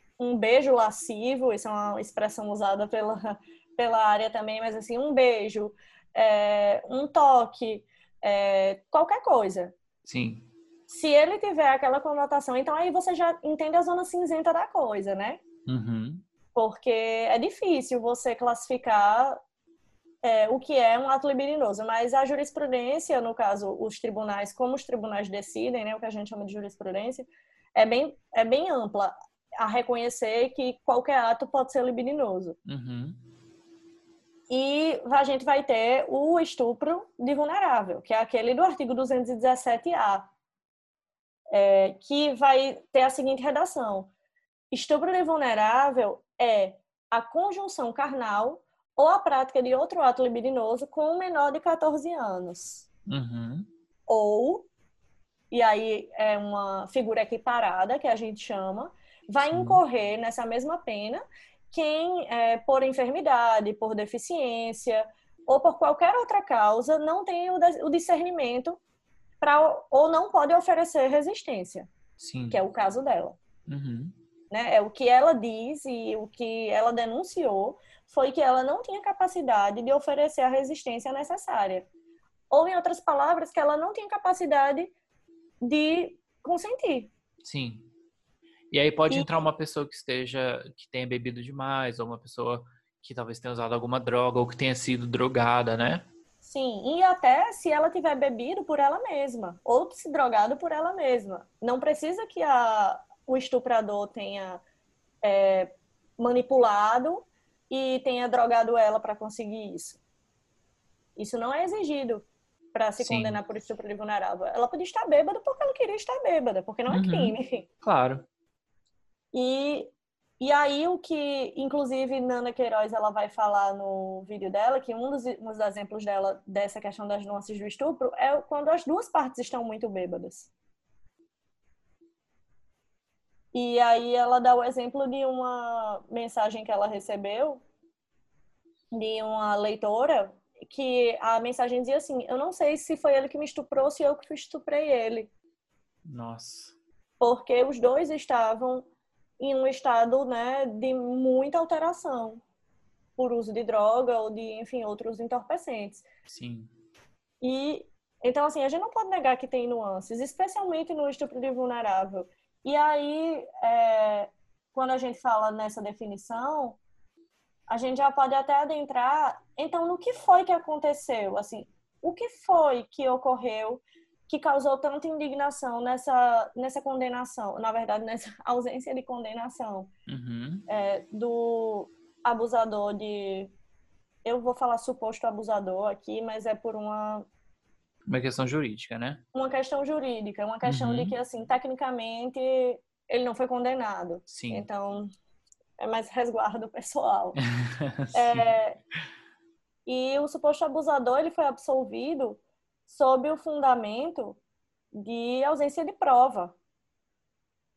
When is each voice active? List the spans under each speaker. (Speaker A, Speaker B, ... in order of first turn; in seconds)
Speaker A: 0.2-9.7, 10.9-15.4, 16.5-19.4, 20.2-32.5, 34.5-40.3, 41.5-44.1, 44.7-52.9, 54.1-54.7, 55.5-68.8, 69.4-71.9, 72.5-73.4, 74.5-81.9, 82.5-84.9, 85.6-87.1, 96.4-104.6, 105.2-110.0, 111.2-117.7, 119.3-130.5, 133.5-137.6, 138.9-145.3, 147.2-148.9, 149.4-152.4, 153.2-156.1, 157.4-166.8, 167.7-179.9, 180.7-183.5, 184.2-187.3, 189.3-195.1, 195.8-197.4, 198.1-198.8, 199.8-204.4, 204.9-206.5
Speaker B: 10.0-10.5, 15.7-16.2, 32.6-33.2, 53.1-53.7, 59.5-59.8, 72.2-72.6, 73.7-74.1, 87.4-87.9, 88.7-96.0, 113.0-113.4, 116.9-118.2, 146.1-146.8, 156.3-156.7, 180.1-180.7, 188.1-189.2, 190.6-191.2, 194.3-194.7, 197.4-198.5